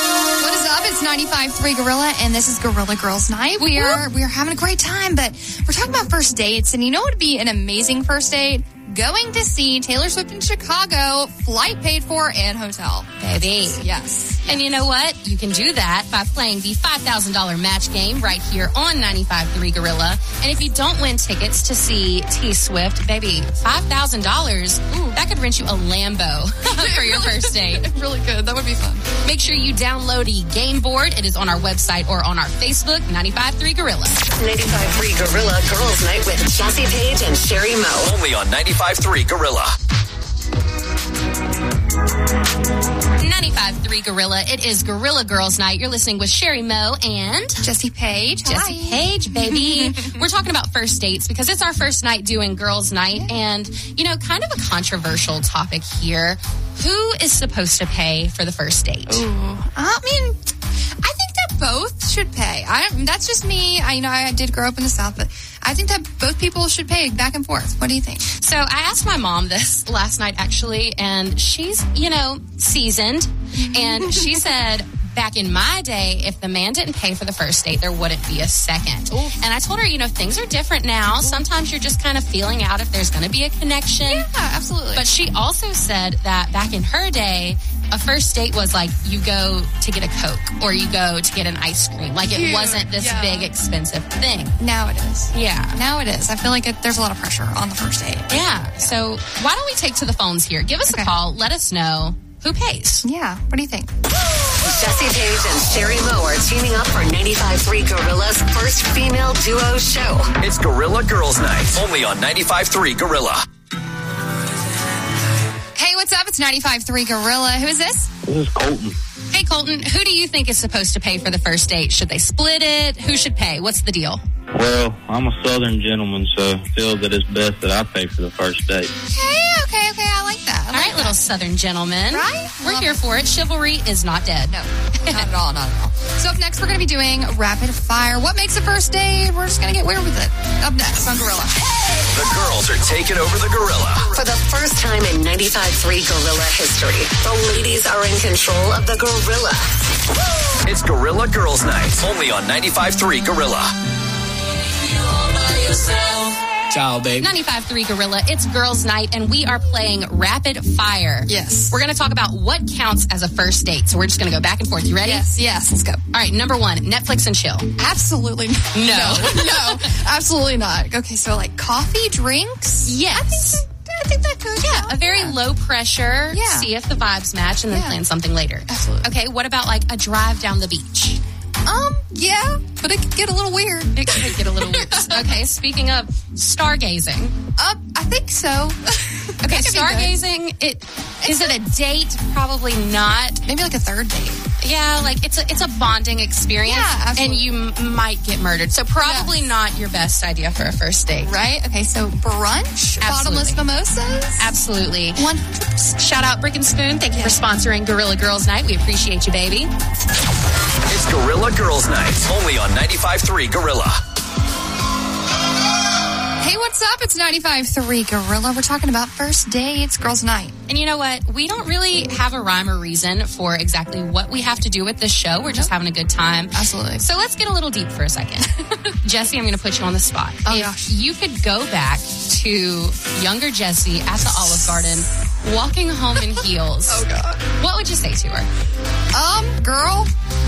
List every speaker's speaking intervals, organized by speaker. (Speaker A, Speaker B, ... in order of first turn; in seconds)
Speaker A: 0.4-14.8, 24.9-25.2, 26.6-29.0, 47.6-50.2, 59.1-68.2, 73.6-74.4, 79.1-79.4, 81.2-81.5, 84.0-85.0, 90.7-91.0, 92.2-93.5, 94.6-99.0, 100.8-101.1, 103.0-103.9, 115.8-118.1, 129.1-131.3, 132.1-133.0, 134.5-141.6, 161.3-161.8, 165.0-166.0, 167.8-175.4, 176.3-176.7, 177.7-178.0, 178.7-179.1, 181.7-185.3, 187.6-190.2, 191.2-191.6, 193.4-194.4, 196.6-197.6, 199.0-199.4, 201.2-204.5, 205.2-205.9, 207.1-207.4, 216.4-220.6, 225.5-225.7, 226.5-227.0, 230.4-230.9, 236.2-237.4, 239.1-240.1
Speaker B: 3.6-4.0, 13.2-13.9, 14.4-27.9, 29.2-34.2, 43.2-47.6, 48.5-59.2, 68.2-84.3, 84.9-94.5, 95.3-95.8, 98.3-103.0, 119.3-124.2, 130.7-135.2, 157.2-165.3, 166.1-167.7, 168.7-169.9, 172.8-173.6, 174.6-181.2, 183.9-187.3, 189.4-193.4, 194.6-201.3, 203.0-203.6, 204.4-205.2, 205.9-209.7, 220.7-237.1, 237.6-238.5
Speaker C: 34.3-38.1, 104.6-110.3, 144.1-149.9
Speaker D: 38.0-39.7, 110.4-113.4, 142.1-144.1, 150.7-153.7, 210.9-214.0
Speaker E: 118.2-119.0, 124.5-128.9